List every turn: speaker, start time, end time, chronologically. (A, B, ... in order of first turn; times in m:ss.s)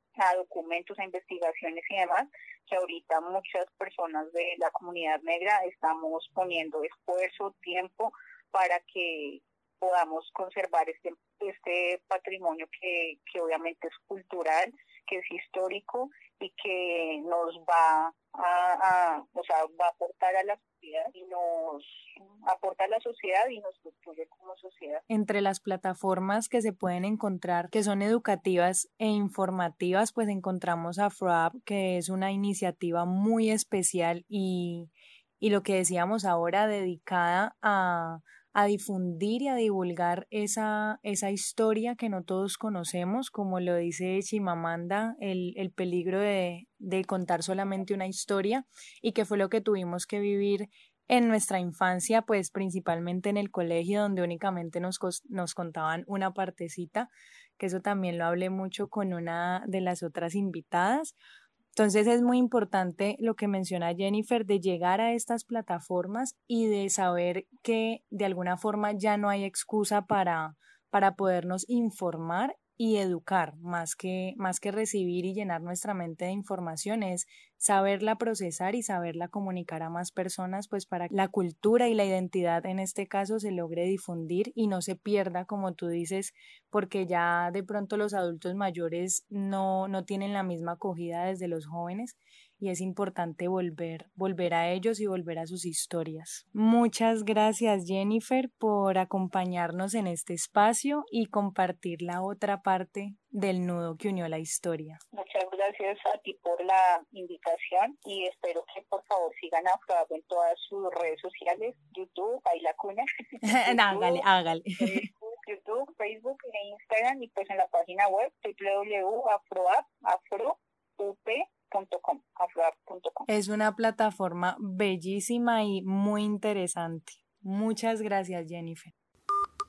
0:00.2-0:25.0 A
0:25.1-1:01.2 B
1:01.8-1:45.0 B
1:45.1-1:54.3 A
1:53.4-1:55.1 B
1:54.8-2:03.3 A
2:03.3-2:08.9 B